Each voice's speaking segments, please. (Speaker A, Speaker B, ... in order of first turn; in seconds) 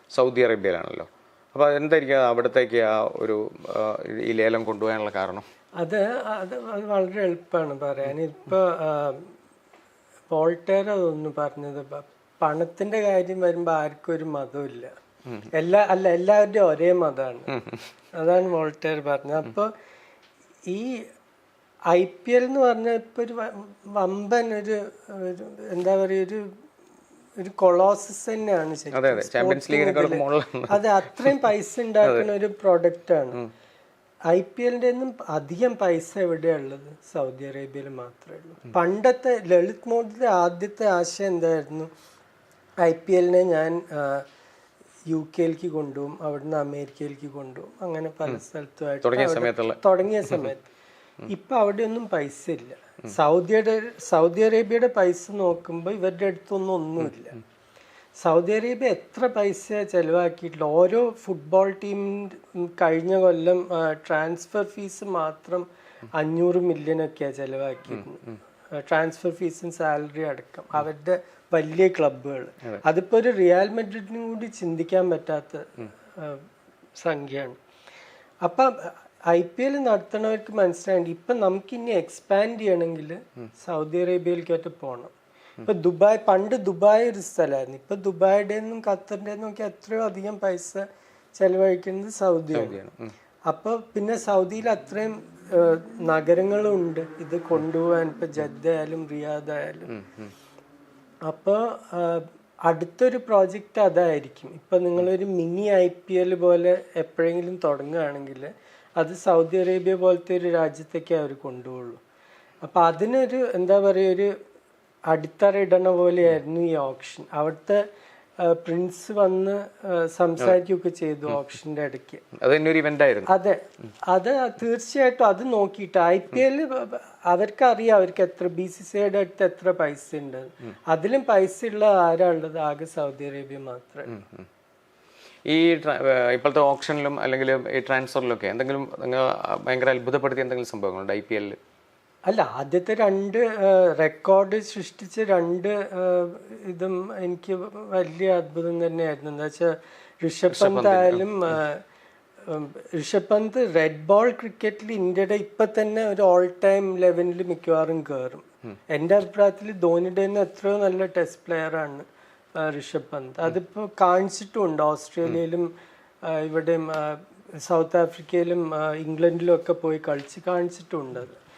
Speaker A: 0.1-5.5, 17.6-17.8, 28.9-31.3, 49.0-49.8, 92.5-93.1, 100.0-100.3, 122.3-123.3, 135.5-141.6, 150.5-151.3
Speaker B: 5.8-9.3, 10.3-14.9, 15.6-17.5, 18.2-19.7, 20.7-21.0, 21.9-26.5, 27.4-33.4, 34.3-41.9, 42.8-44.3, 45.1-50.7, 51.3-57.4, 58.2-68.2, 68.8-76.4, 77.0-77.6, 78.5-85.1, 85.7-90.8, 91.4-92.8, 93.5-99.9, 101.3-112.0, 112.6-114.3, 115.1-117.8, 118.4-122.2, 123.3-134.2, 142.3-151.8, 152.5-162.1, 162.6-165.7, 166.2-171.4